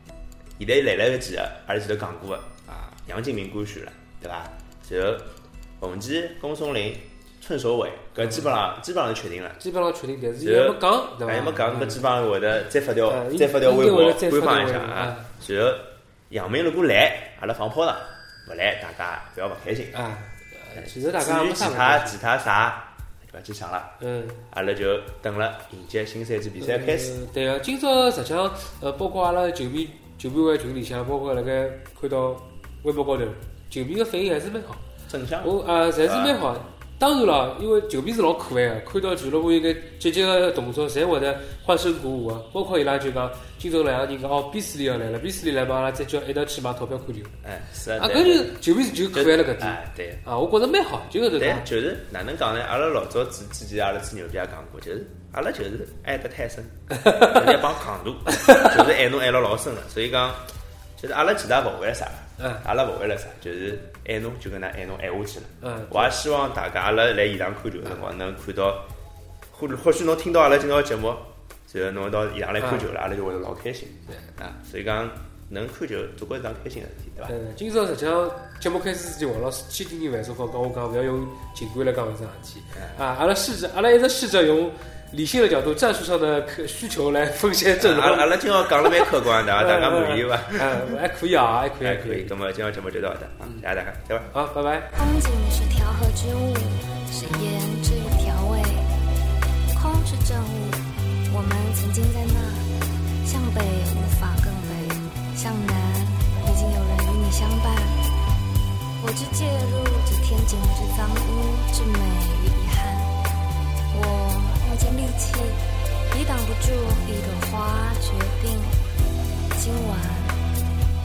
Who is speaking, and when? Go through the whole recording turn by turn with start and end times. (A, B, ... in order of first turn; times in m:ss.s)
0:00.6-0:09.6 A
0:08.2-0:08.5 B
0:09.6-0:12.0 B
0:10.4-0:20.0 A
0:13.1-0:15.3 B
0:19.9-0:22.2 B
0:20.8-0:23.9 A
0:24.0-0:24.4 B
0:24.5-0:27.1 A
0:26.6-0:34.8 B
0:35.1-0:36.4 A
0:35.4-0:47.3 B
0:47.4-0:48.5 A
0:48.0-0:51.6 B
0:49.1-0:50.2 A
0:51.3-1:08.8 A
0:57.0-0:57.5 B
0:58.4-0:58.6 B
1:02.4-1:02.6 B
1:05.6-1:06.2 B
1:09.5-1:17.4 A
1:12.6-1:12.9 B
1:17.3-1:32.3 B
1:27.8-1:31.0 A
1:31.8-1:34.3 A
1:34.3-1:34.9 B
1:34.9-1:38.9 C
1:39.7-1:42.7 C
1:43.2-1:48.0 C
1:49.0-1:53.1 C
1:53.9-1:58.8 C
1:59.5-2:00.4 C